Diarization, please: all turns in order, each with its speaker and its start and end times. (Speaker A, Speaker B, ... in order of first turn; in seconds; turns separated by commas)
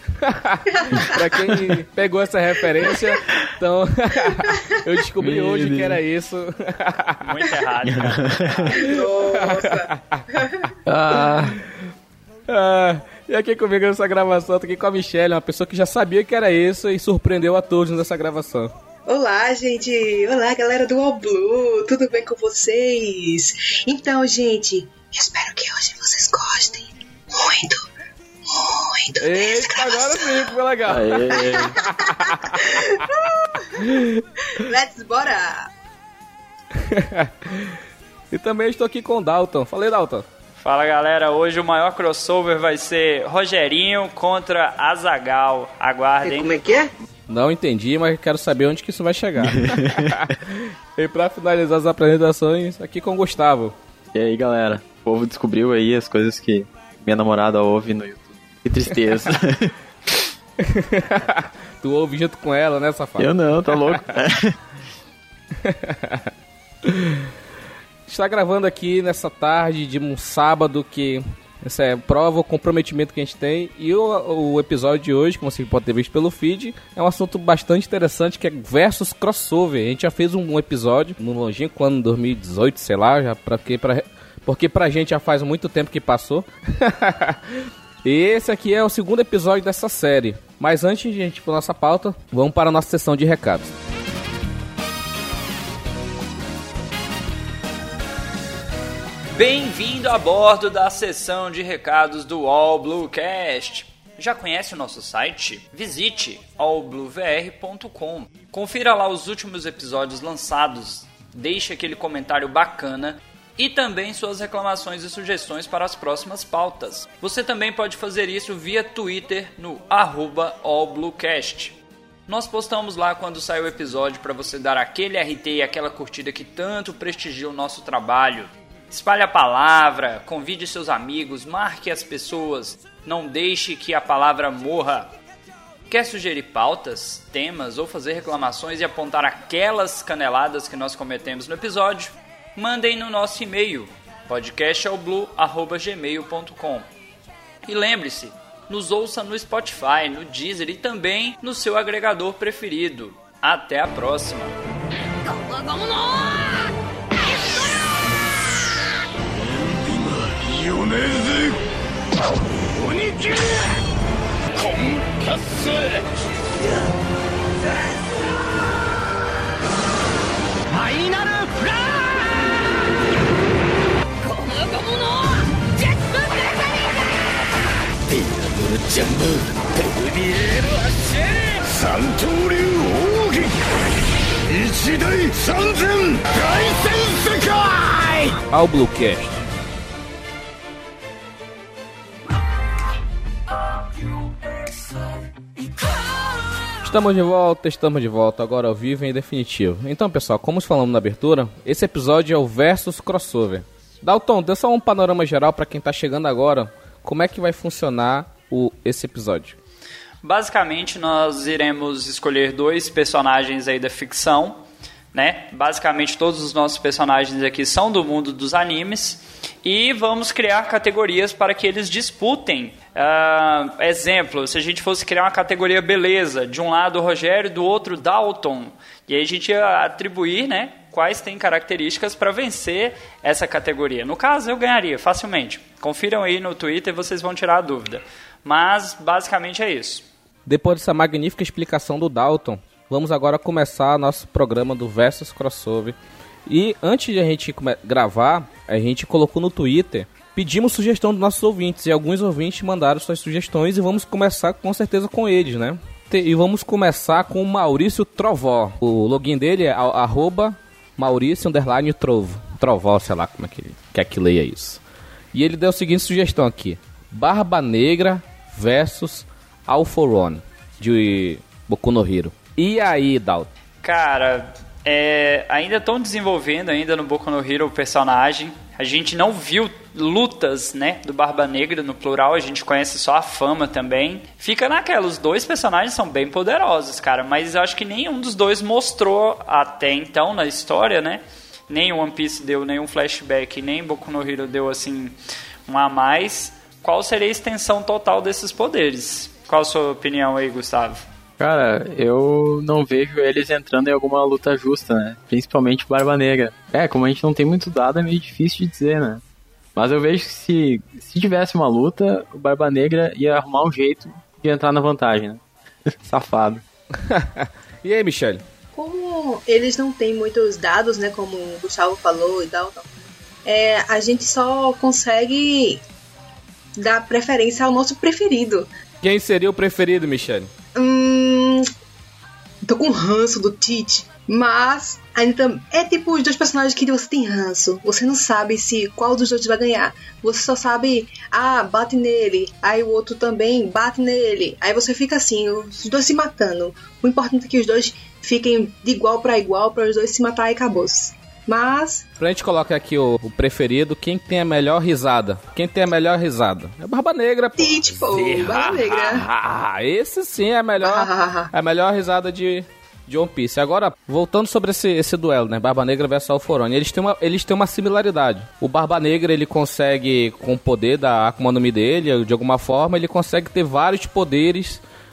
Speaker A: 0.2-7.3, Speaker B: 5.2-6.0, Speaker C: 7.2-8.8, Speaker B: 7.9-8.5, Speaker D: 8.7-10.7, Speaker A: 8.8-10.2, Speaker B: 10.8-11.6, Speaker A: 11.1-11.8, Speaker A: 12.5-18.7, Speaker D: 19.1-27.9, Speaker D: 28.5-30.5, Speaker A: 29.2-33.0, Speaker B: 30.9-31.7, Speaker D: 31.3-33.9, Speaker A: 33.7-34.2, Speaker D: 34.5-35.7, Speaker A: 36.7-37.8, Speaker A: 38.3-40.2, Speaker C: 40.6-46.6, Speaker A: 47.3-53.8, Speaker B: 49.5-50.2, Speaker B: 54.1-59.7, Speaker A: 60.6-64.0, Speaker B: 63.2-64.5, Speaker A: 65.6-66.3, Speaker A: 66.8-67.3, Speaker A: 68.1-93.7, Speaker C: 99.3-121.8, Speaker C: 122.3-135.1, Speaker C: 135.9-146.9, Speaker C: 147.6-154.6, Speaker E: 155.3-156.5, Speaker E: 159.8-161.6, Speaker E: 162.7-163.8, Speaker E: 164.6-166.0, Speaker E: 170.7-172.3, Speaker E: 174.2-176.6, Speaker E: 178.1-183.6, Speaker E: 184.5-188.3, Speaker A: 188.5-189.4, Speaker A: 196.8-209.6, Speaker C: 210.2-214.6, Speaker C: 215.1-240.1, Speaker A: 240.4-264.8, Speaker A: 265.3-273.5, Speaker C: 273.8-295.1, Speaker C: 295.7-301.0, Speaker B: 301.4-309.2, Speaker B: 309.8-316.6, Speaker A: 317.0-318.4, Speaker D: 318.7-322.9, Speaker D: 323.4-325.8, Speaker D: 326.8-328.7, Speaker A: 329.0-330.5, Speaker D: 330.7-331.7, Speaker D: 332.6-352.1, Speaker A: 352.2-374.8, Speaker D: 357.6-359.2, Speaker D: 360.8-361.5